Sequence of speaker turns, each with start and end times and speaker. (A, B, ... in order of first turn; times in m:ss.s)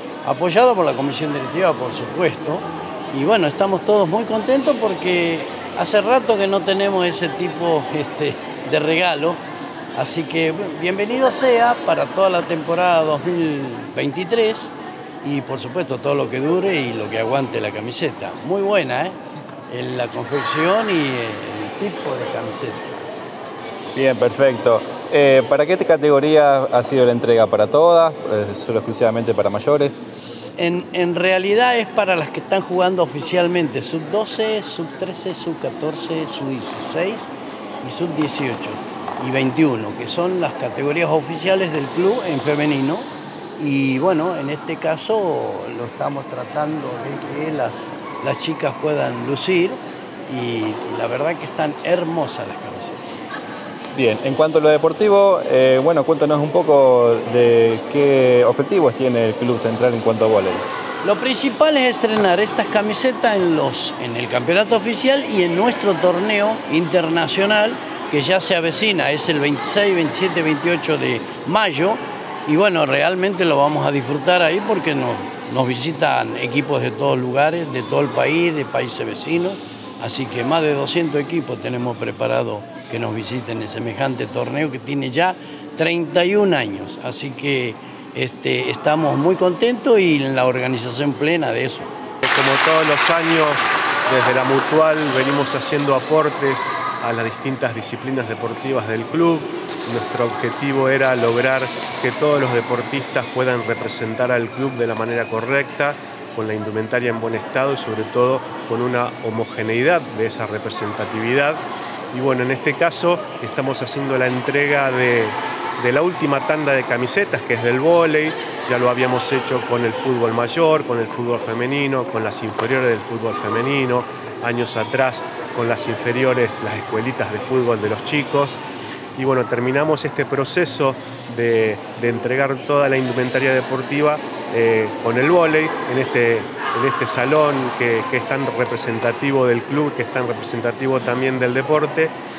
0:00.2-0:09.4 A
0:10.0-0:19.2 A
0:19.7-0:23.0 A
0:23.9-0:30.0 B
0:30.1-0:53.1 A
0:53.9-1:00.6 B
1:01.0-1:31.9 A
1:32.2-1:51.6 C
1:52.1-2:08.6 C
2:09.2-2:22.1 C